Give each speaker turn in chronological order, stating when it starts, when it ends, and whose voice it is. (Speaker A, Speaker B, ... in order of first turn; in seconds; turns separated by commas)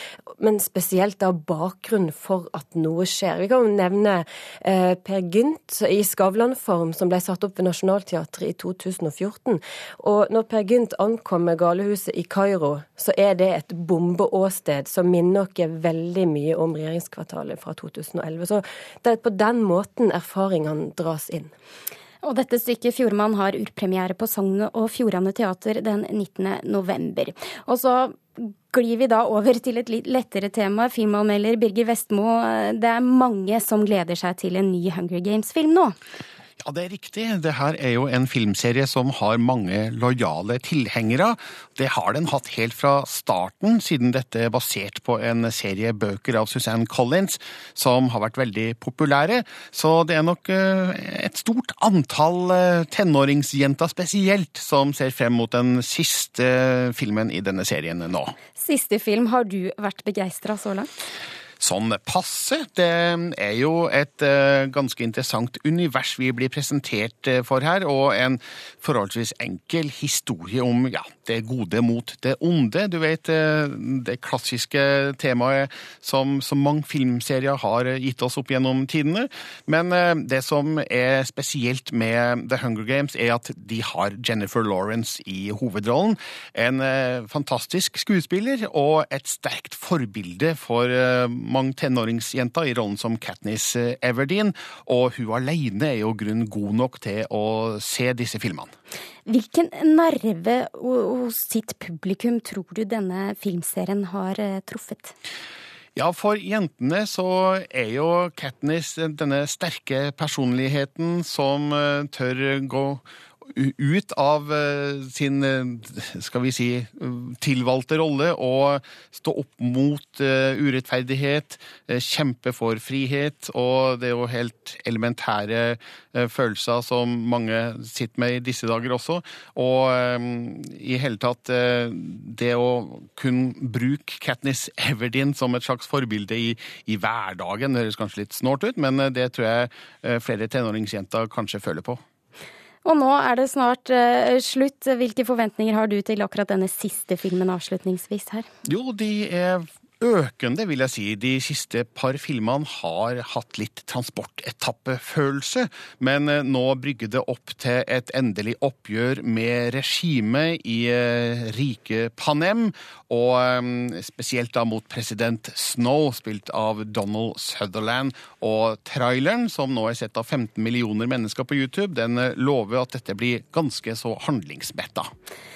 Speaker A: 0.3-21.5, Speaker B: 22.2-36.0, Speaker C: 36.6-58.3, Speaker B: 58.6-60.9, Speaker C: 61.6-98.7, Speaker B: 99.2-105.1, Speaker C: 106.0-142.0, Speaker B: 142.8-148.5, Speaker C: 148.7-175.1